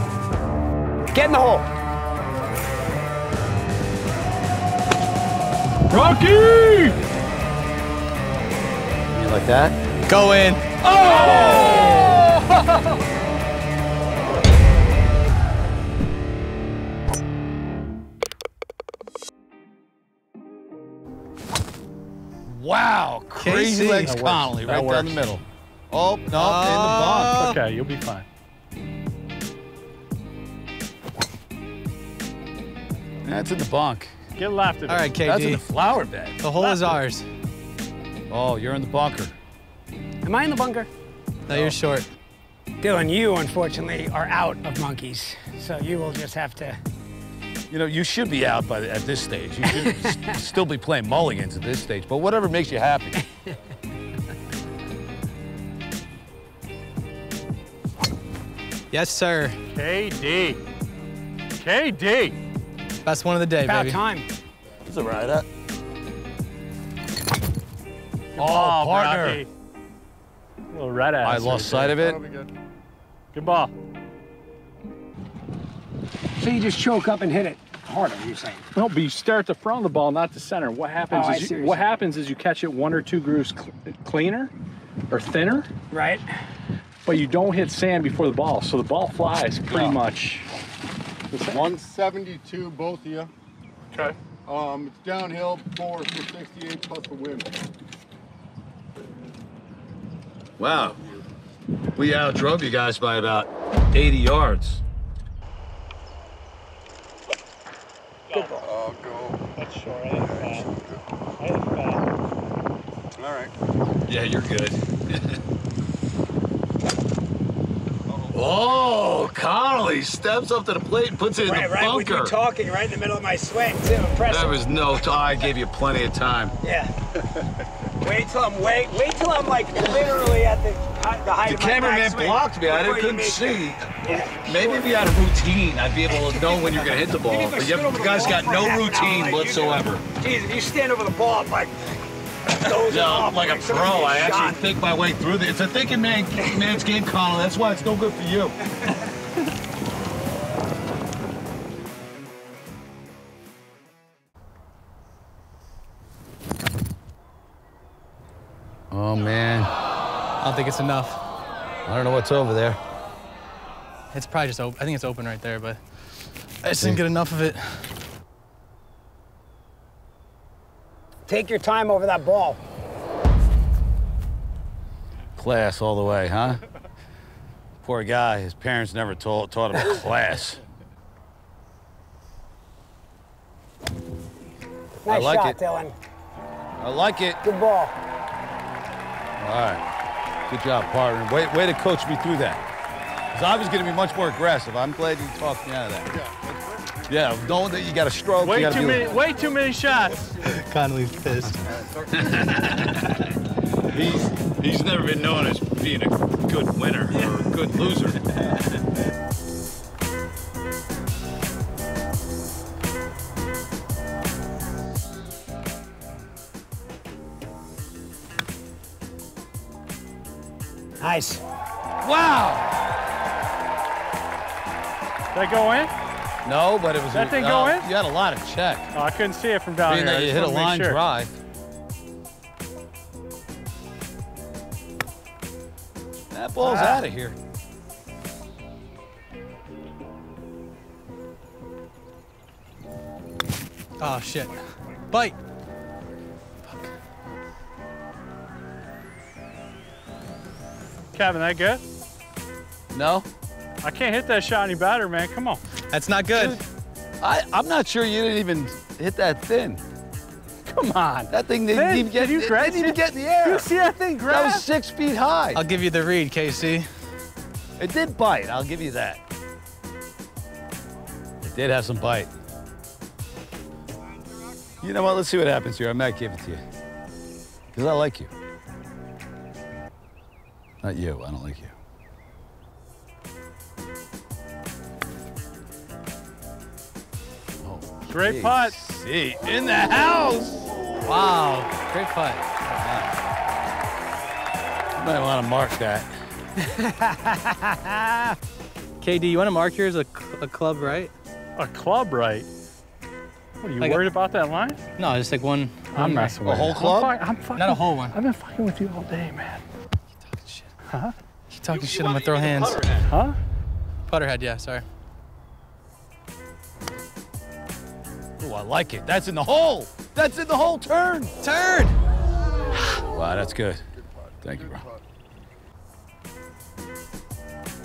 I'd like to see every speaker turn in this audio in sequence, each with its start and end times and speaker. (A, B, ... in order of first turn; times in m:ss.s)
0:01.1-0:01.7 A
0:05.9-0:07.0 B
0:09.1-0:09.8 C
0:10.1-0:10.6 D
0:10.8-0:12.4 C
0:11.0-0:12.0 B
0:11.1-0:12.2 A
0:22.4-0:27.4 C
0:23.4-0:24.2 D
0:24.0-0:25.2 B
0:26.3-0:27.6 D
0:27.4-0:28.3 B
0:33.2-0:34.1 C
0:34.4-0:35.1 B
0:34.9-0:35.6 D
0:35.2-0:36.4 C
0:36.4-0:37.2 D
0:36.6-0:37.0 B
0:38.3-0:39.3 C
0:40.2-0:40.9 A
0:41.4-0:42.0 D
0:42.8-0:46.8 A
0:47.7-0:53.2 C
0:49.7-0:50.0 A
0:58.9-0:59.6 D
0:59.7-1:00.6 B
1:01.6-1:02.4 B
1:03.0-1:04.0 D
1:03.6-1:04.2 A
1:04.9-1:05.4 C
1:08.3-1:09.5 B
1:08.4-1:09.4 C
1:10.7-1:11.9 B
1:11.2-1:12.2 C
1:11.9-1:12.5 E
1:13.3-1:13.7 B
1:16.4-1:18.6 A
1:18.7-1:24.5 B
1:21.1-1:21.9 A
1:25.1-1:25.7 B
1:25.9-1:26.3 A
1:27.0-1:30.4 B
1:29.7-1:30.0 C
1:31.3-1:31.6 B
1:31.5-1:33.3 E
1:33.9-1:37.5 E
1:40.6-1:41.0 C
1:42.0-1:44.8 C
1:48.3-1:48.6 B
1:48.3-1:48.7 A
1:48.7-1:49.4 E
1:49.5-1:50.7 B
1:51.4-1:52.1 B
1:54.0-1:55.4 C
1:58.2-2:02.4 C
2:01.4-2:04.6 A
2:04.2-2:06.6 C
2:06.6-2:06.9 A
2:08.0-2:15.1 A
2:11.4-2:20.0 C
2:17.2-2:22.0 A
2:22.5-2:24.7 A
2:22.8-2:28.6 C
2:26.4-2:26.7 A
2:38.9-2:39.7 C
2:40.4-2:41.2 D
2:41.9-2:42.8 C
2:44.1-2:45.8 D
2:46.6-2:47.9 D
2:46.8-2:47.0 C
2:51.3-2:52.6 A
2:55.4-2:56.6 C
2:57.8-3:00.6 C
3:05.0-3:05.9 A
3:05.1-3:05.6 C
3:06.8-3:07.4 C
3:07.4-3:07.9 A
3:09.4-3:09.8 C
3:10.5-3:12.6 C
3:13.3-3:16.2 C
3:16.2-3:16.9 E
3:17.1-3:19.2 C
3:18.4-3:20.3 B
3:20.4-3:21.6 D
3:22.1-3:23.3 C
3:23.9-3:28.2 C
3:27.1-3:27.4 D
3:41.0-3:41.4 A
3:42.0-3:42.7 C
3:45.3-3:45.9 B
3:46.4-3:48.9 C
3:47.1-3:47.9 B
3:48.9-3:51.0 B
3:49.8-3:51.4 C
3:56.3-3:57.4 C
3:56.6-3:57.0 B
4:04.0-4:05.4 D
4:06.6-4:06.9 D
4:11.1-4:11.8 B
4:12.9-4:13.2 C
4:13.8-4:15.6 B
4:15.9-4:16.6 D
4:16.3-4:16.6 C
4:17.2-4:19.8 C
4:20.6-4:24.7 B
4:21.3-4:23.7 C
4:24.2-4:25.6 C
4:25.5-4:26.9 D
4:27.8-4:29.2 C
4:31.4-4:32.3 C
4:34.8-4:36.6 C
4:37.7-4:38.3 C
4:40.8-4:41.7 C
4:47.6-4:51.1 C
4:48.0-4:48.7 B
4:51.0-4:52.4 D
4:52.6-4:53.1 C
4:55.0-4:56.1 C
4:56.7-4:57.6 A
4:59.0-5:01.1 D
5:01.6-5:02.5 B
5:03.6-5:04.8 B
5:05.0-5:06.4 D
5:05.9-5:09.6 B
5:06.4-5:07.1 C
5:07.6-5:08.2 D
5:10.2-5:10.7 D
5:10.9-5:11.2 B
5:11.5-5:13.0 D
5:11.7-5:13.0 C
5:13.1-5:13.4 B
5:14.1-5:14.8 D
5:18.4-5:21.3 C
5:21.4-5:22.0 D
5:23.0-5:23.8 C
5:24.4-5:24.8 C